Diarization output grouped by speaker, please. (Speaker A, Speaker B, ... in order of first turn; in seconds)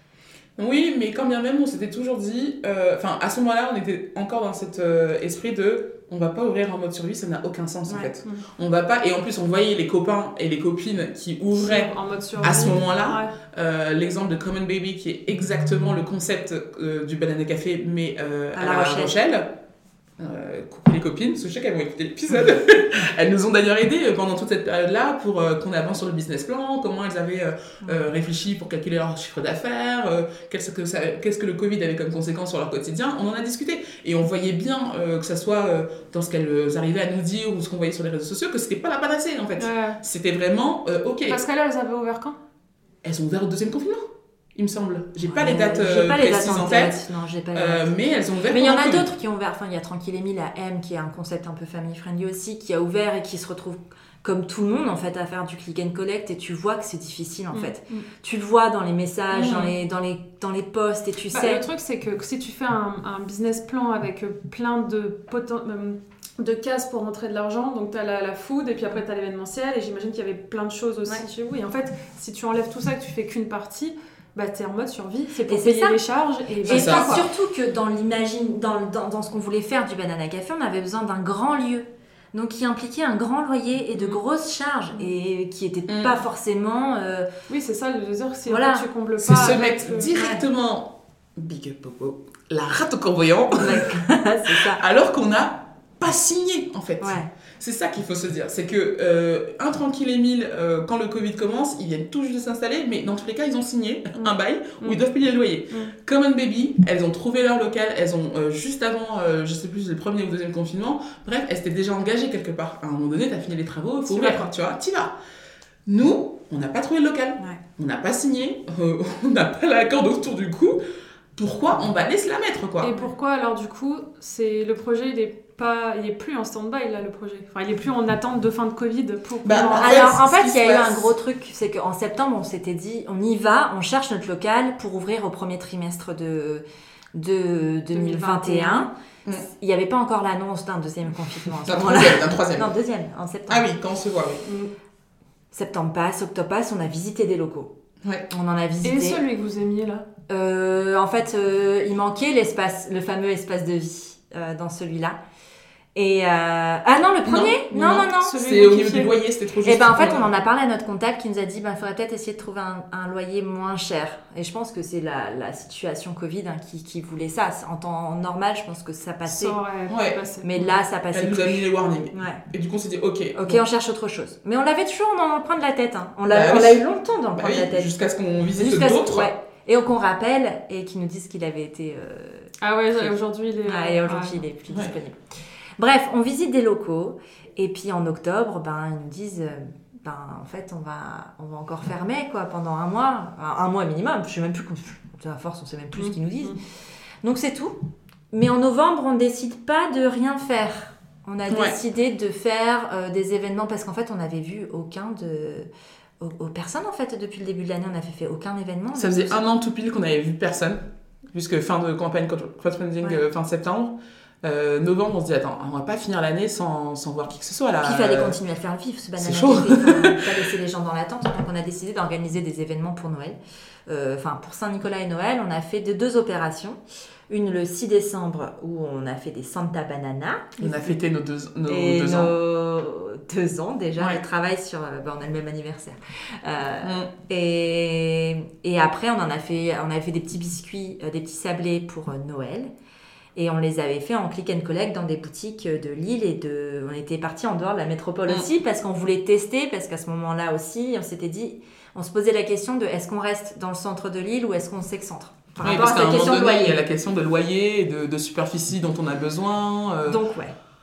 Speaker A: 0.6-19.5, 20.2-41.4, 43.0-49.1, 59.3-59.7, 76.7-77.2, 85.9-86.1, 89.2-115.1, 115.8-120.8, 121.3-122.9, 129.4-131.1, 141.6-142.7, 143.5-144.4, 157.2-160.3, 169.9-170.2, 171.1-173.6, 176.3-176.8, 177.3-179.3, 201.5-201.8, 208.9-218.4, 219.2-220.2, 230.6-232.3, 236.8-237.1, 255.6-260.2
Speaker B: 11.5-13.3, 39.6-40.0, 41.2-42.4, 57.5-58.1, 61.3-77.2, 87.5-90.1, 122.8-130.1, 137.9-138.9, 144.4-144.7, 148.8-150.0, 157.8-159.1, 169.3-170.7, 182.6-184.4, 195.9-196.6
Speaker C: 18.5-19.1, 45.2-47.9, 48.4-61.6, 75.5-76.0, 76.7-87.3, 88.5-88.8, 90.1-90.4, 93.6-94.8, 97.0-97.3, 114.1-114.5, 129.7-143.7, 145.5-147.7, 148.3-149.2, 150.3-155.2, 155.9-158.3, 159.6-169.6, 170.4-172.4, 173.3-177.9, 178.6-183.1, 183.6-185.2, 185.8-196.6, 197.2-197.7, 198.3-205.7, 206.2-209.4, 217.8-230.9, 231.7-242.7, 243.3-256.8, 260.1-260.5